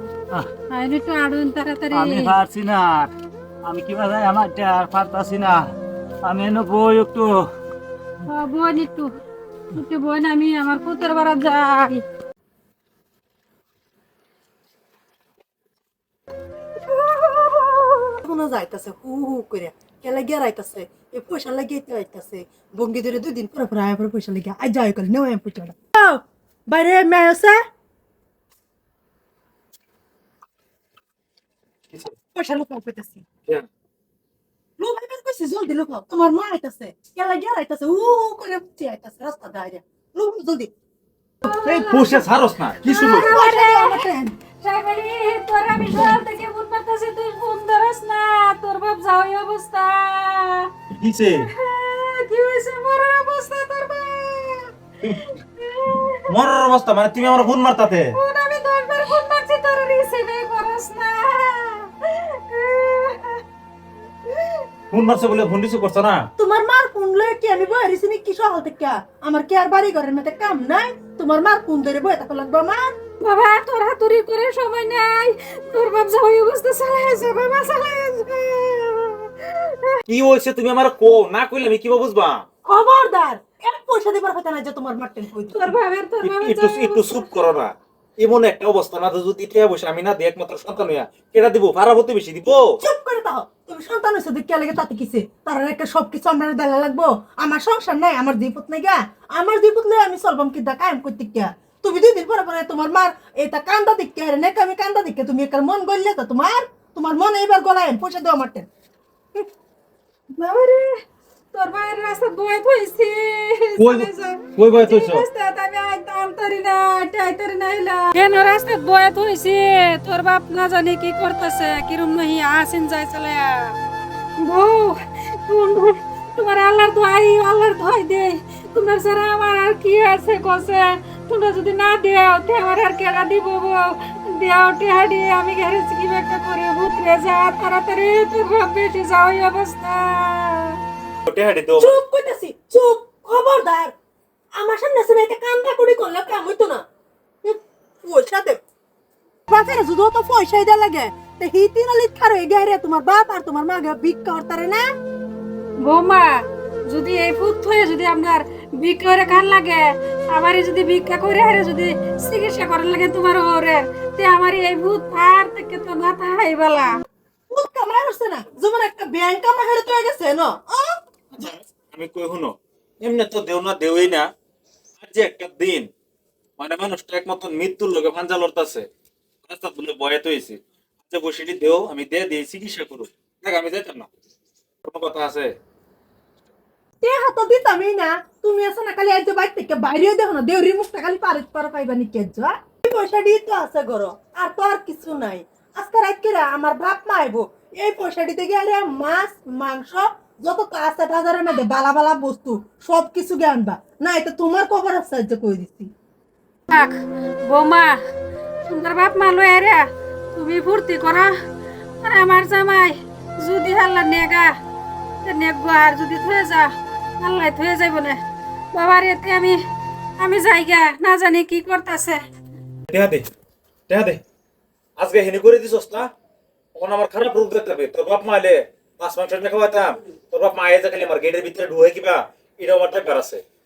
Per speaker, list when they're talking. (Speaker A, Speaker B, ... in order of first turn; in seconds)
Speaker A: 0.7-2.4, 8.3-9.1, 9.7-12.0, 41.4-42.2, 42.9-44.0, 44.6-50.7, 51.5-56.2, 58.1-63.4, 73.2-80.0, 85.5-87.3, 110.4-111.0, 111.5-123.8, 124.4-140.8, 155.8-166.9, 206.7-206.9, 207.5-208.0, 208.7-211.3, 212.0-214.5, 215.2-218.2, 218.7-219.6, 220.2-222.2
Speaker B: 1.9-3.1, 3.6-5.7, 6.2-7.4
Speaker C: 17.4-27.6, 32.3-33.3, 34.8-40.7, 42.9-44.4, 45.9-46.2, 66.4-73.0, 82.6-85.8, 92.8-108.7, 141.8-143.9, 144.6-146.8, 147.4-148.6, 149.5-154.8, 167.5-171.0, 187.0-205.9
Speaker D: 41.6-43.3, 50.9-51.5, 56.3-58.2, 64.9-66.3, 80.1-82.5, 86.2-92.8, 113.8-115.3, 141.3-142.0, 171.3-174.3, 175.0-175.9, 176.6-178.9, 179.5-184.1, 184.8-185.6, 222.9-223.3, 223.9-224.2, 225.0-226.1, 226.8-233.4